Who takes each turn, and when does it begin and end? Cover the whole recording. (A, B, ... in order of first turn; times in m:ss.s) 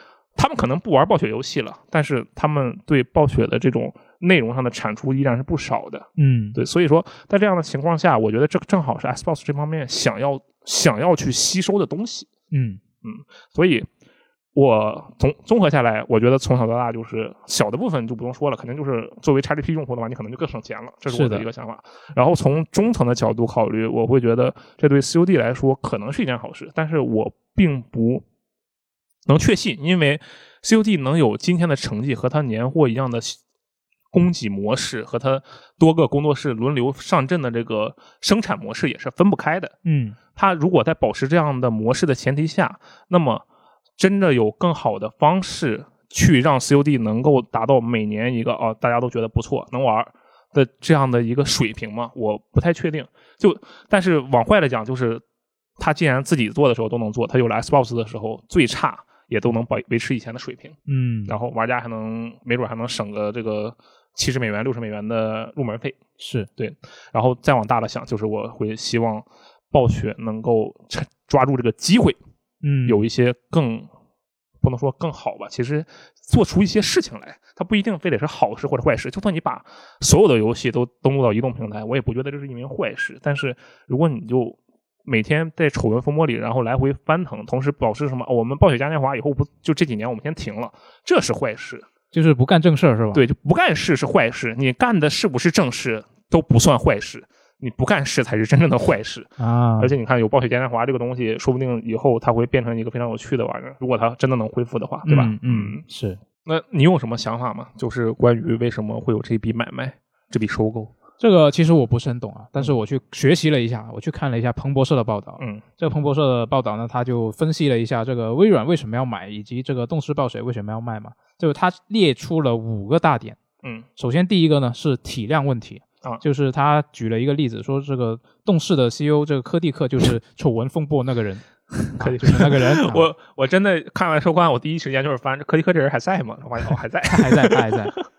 0:00.4-0:12.3 A
0:06.2-0:06.6 B
0:12.5-0:12.8 B
0:13.0-0:13.9 A
0:14.5-0:28.2 A
0:21.1-0:21.5 B
0:29.3-0:33.4 A
0:34.1-0:39.7 A
0:39.8-0:40.2 B
0:40.3-0:43.4 A
0:44.0-0:55.2 A
0:55.8-1:06.0 A
1:00.9-1:01.3 B
1:06.2-1:06.5 B
1:06.6-1:12.2 A
1:12.6-1:13.0 B
1:12.8-1:13.9 A
1:14.6-1:31.9 A
1:32.1-1:33.2 B
1:33.1-1:45.8 A
1:39.4-1:39.9 B
1:45.0-1:46.2 B
1:46.4-1:50.9 A
1:51.2-2:03.4 B
1:55.4-1:55.6 A
2:04.0-2:11.4 B
2:11.7-2:18.0 A
2:12.0-2:13.1 B
2:17.1-2:18.0 B